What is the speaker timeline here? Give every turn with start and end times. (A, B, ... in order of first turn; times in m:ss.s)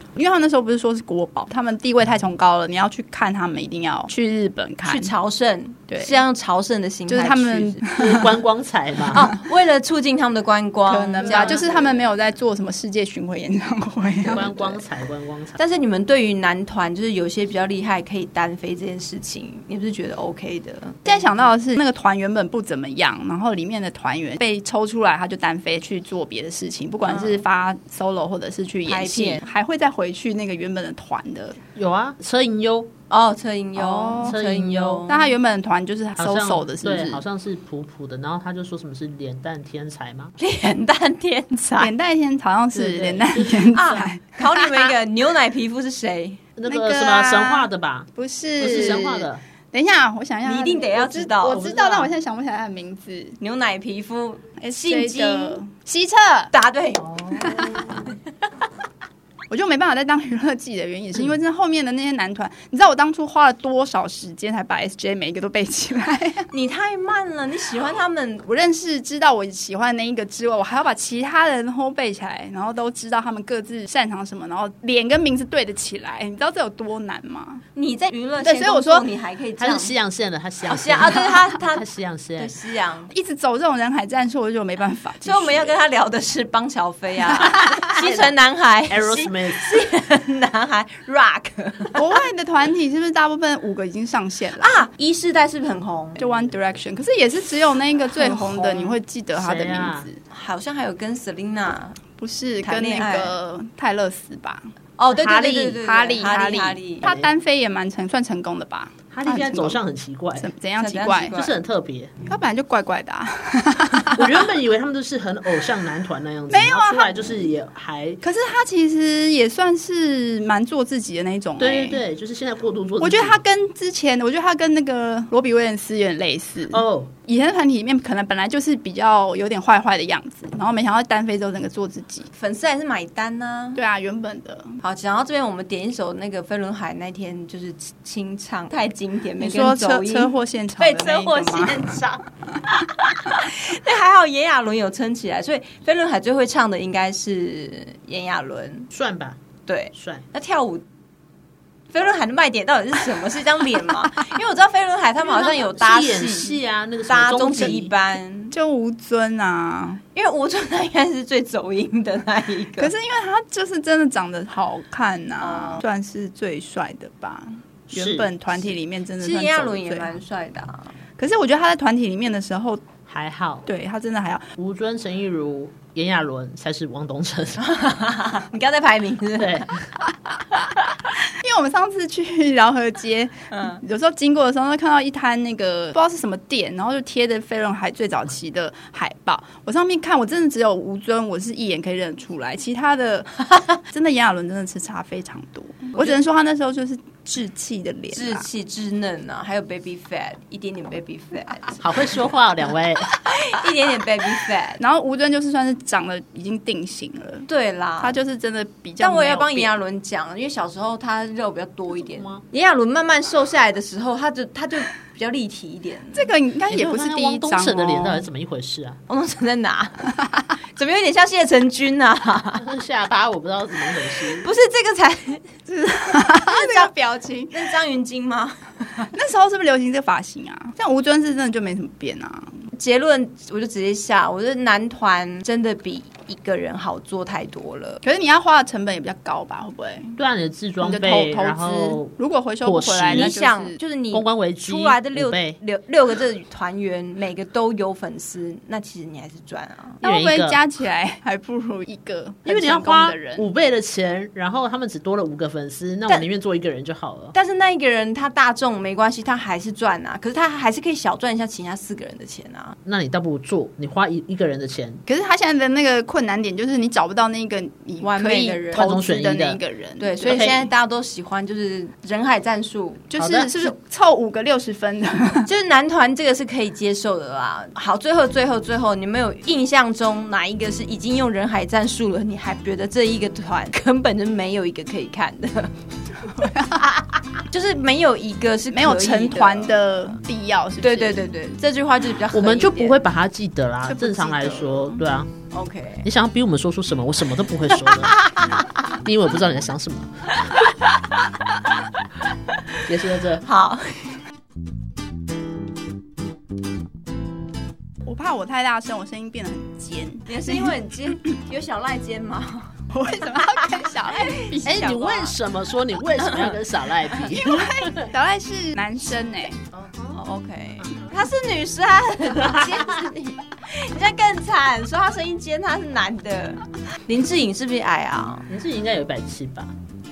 0:00.2-0:05.1 A
0:04.8-0:07.8 B
0:05.9-0:06.2 A
0:07.1-0:08.4 A
0:07.9-0:09.2 C
0:09.1-0:12.1 B
0:10.9-0:14.8 A
0:11.2-0:11.8 C
0:14.3-0:15.6 C
0:15.6-0:21.5 B
0:21.0-0:31.6 A
0:27.0-0:27.4 B
0:28.8-0:29.5 B
0:31.8-0:32.9 C
0:33.1-0:35.3 B
0:33.8-0:34.4 A
0:34.2-0:35.0 C
0:35.1-0:37.2 A
0:36.2-0:40.3 C
0:40.4-0:41.9 B
0:41.8-0:44.9 A
0:42.7-0:44.0 C
0:43.7-0:46.4 B
0:46.6-0:48.1 C
0:46.7-0:53.4 A
0:48.6-0:49.4 C
0:48.6-0:49.1 B
0:50.4-0:51.6 B
0:51.5-0:52.1 C
0:53.4-0:55.6 B
0:54.6-0:56.5 A
0:56.5-0:58.1 B
0:57.1-0:58.0 C
0:59.5-1:06.5 A
1:06.5-1:08.5 B
1:08.5-1:17.6 A
1:17.8-1:20.0 B
1:18.4-1:19.0 A
1:19.6-1:22.5 C
1:20.6-1:23.1 B
1:23.1-1:25.7 A
1:25.2-1:32.0 B
1:27.3-1:27.8 A
1:27.6-1:28.4 C
1:28.9-1:29.8 C
1:32.0-1:34.8 A
1:34.6-1:36.2 B
1:36.2-1:40.2 A
1:38.2-1:39.0 B
1:39.4-1:40.1 C
1:40.3-1:42.0 B
1:42.2-1:49.8 A
1:42.6-1:43.4 B
1:45.0-1:47.1 B
1:47.0-1:47.3 C
1:49.1-1:50.5 C
1:50.4-1:51.4 A
1:50.8-1:51.6 B
1:51.3-1:52.1 C
1:52.3-1:54.4 A
1:54.1-1:58.2 C
1:56.5-1:57.5 A
1:58.2-2:02.0 A
2:01.6-2:03.4 C
2:03.0-2:12.3 A
2:06.7-2:07.1 C
2:12.3-2:13.8 B
2:13.8-2:14.8 A
2:14.8-2:28.9 B
2:19.4-2:21.8 A
2:28.9-2:29.4 C
2:29.6-2:30.8 B
2:29.9-2:30.2 C
2:31.9-2:38.5 B
2:35.2-2:37.9 C
2:38.5-2:40.0 A
2:40.1-2:42.9 B
2:42.8-2:50.1 A
2:45.4-2:45.8 B
2:47.9-2:48.6 C
2:49.2-2:50.9 B
2:51.2-2:52.8 A
2:53.1-2:53.6 C
2:53.6-2:54.5 A
2:54.6-2:57.6 C
2:57.6-2:59.7 B
2:59.4-2:59.7 C
3:01.3-3:18.5 A
3:03.5-3:03.8 B
3:15.9-3:16.2 B
3:18.1-3:22.1 B
3:21.8-3:23.1 C
3:23.2-3:24.8 B
3:24.8-3:27.5 A
3:27.5-3:28.2 B
3:28.0-3:29.7 A
3:29.0-3:36.3 B
3:32.0-3:32.4 C
3:36.1-3:38.3 A
3:36.7-3:39.0 C
3:39.1-3:40.2 B
3:40.7-3:42.6 B
3:42.6-3:44.5 C
3:44.4-3:45.5 B
3:45.7-3:47.5 A
3:46.1-3:49.1 B
3:49.1-3:52.6 A
3:52.8-3:58.0 B
3:58.0-4:00.2 A
4:00.2-4:03.3 C
4:00.8-4:03.8 A
4:03.1-4:10.0 B
4:04.1-4:05.6 C
4:10.0-4:13.5 A
4:10.0-4:10.6 C
4:12.5-4:17.3 C
4:17.3-4:22.8 B
4:22.9-4:25.0 C
4:25.1-4:30.4 A
4:28.0-4:28.9 B
4:28.7-4:29.6 C
4:30.0-4:33.1 B
4:30.2-4:30.6 C
4:33.1-4:35.5 A
4:33.2-4:33.5 C
4:35.5-4:45.7 B
4:46.4-4:46.7 A
4:46.4-4:50.0 B
4:48.7-4:51.2 A
4:50.8-4:53.0 B
4:52.3-4:55.3 C
4:53.8-4:55.0 A
4:55.5-4:56.1 B
4:56.0-4:58.2 C
4:57.9-4:58.7 B
4:59.0-5:00.5 C
5:00.5-5:00.9 B
5:02.9-5:03.4 C
5:03.4-5:04.2 B
5:08.0-5:10.7 A
5:10.3-5:15.3 B
5:12.9-5:14.9 A
5:14.6-5:18.1 C
5:17.4-5:19.6 A
5:19.7-5:28.5 B
5:22.4-5:22.8 C
5:28.5-5:29.7 C